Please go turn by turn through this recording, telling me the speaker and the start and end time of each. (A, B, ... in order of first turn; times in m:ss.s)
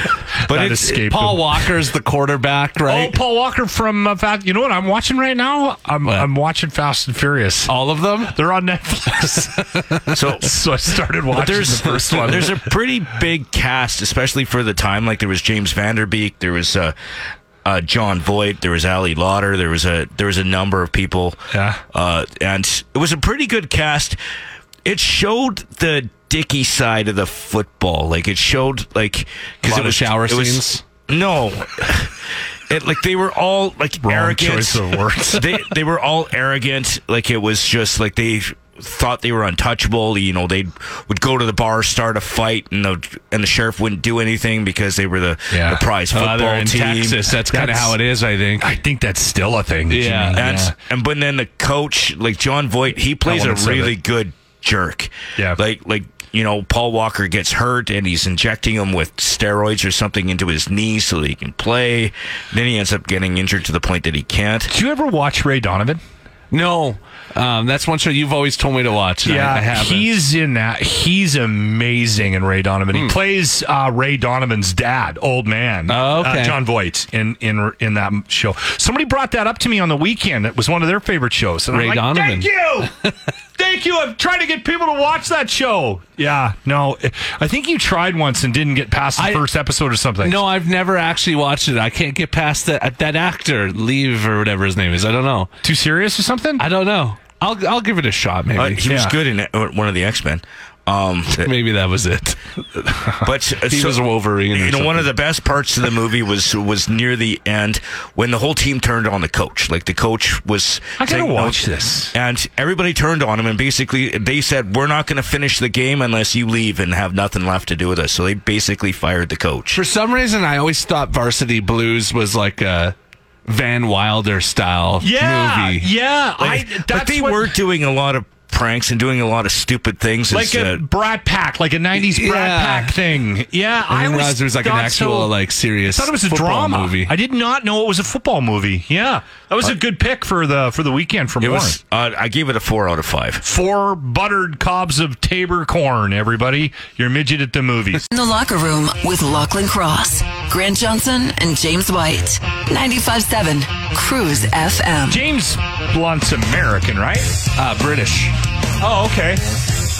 0:00.4-0:01.6 A
0:00.5-0:00.8 B
0:00.5-0:03.2 C
0:02.8-0:07.7 A
0:07.7-0:08.4 C
0:08.3-0:09.8 A
0:09.7-0:10.0 C
0:10.1-0:10.5 B
0:10.4-0:12.6 A
0:11.3-0:16.9 B
0:17.6-0:21.4 B
0:21.5-0:21.8 A
0:21.9-0:24.2 B
0:24.8-0:32.2 B
0:29.6-0:30.8 C
0:32.7-0:47.3 B
0:34.0-0:35.6 A
0:45.5-0:45.8 A
0:46.1-0:48.8 C
0:47.5-0:48.0 A
0:48.6-0:50.7 A
0:49.9-0:50.4 C
0:50.4-1:04.7 B
0:53.2-0:53.9 A
1:04.7-1:06.0 A
1:06.5-1:10.1 C
1:09.2-1:22.9 A
1:15.9-1:16.6 C
1:21.7-1:22.5 C
1:23.6-1:30.4 A
1:29.2-1:29.4 C
1:30.2-1:35.5 C
1:35.6-1:36.6 A
1:36.6-1:38.8 C
1:38.6-1:41.5 B
1:38.8-1:39.2 A
1:41.3-1:42.4 C
1:43.2-1:59.8 B
1:43.6-1:45.1 C
1:51.0-1:52.1 A
1:59.7-2:02.9 C
2:03.5-2:05.9 C
2:05.0-2:07.6 A
2:06.4-2:10.8 B
2:10.3-2:15.3 A
2:12.0-2:13.0 C
2:13.9-2:17.1 C
2:15.9-2:21.8 A
2:21.4-2:23.4 B
2:23.4-2:28.1 A
2:28.1-2:35.2 D
2:35.1-2:37.3 A
2:37.6-2:38.3 C
2:38.8-2:39.4 A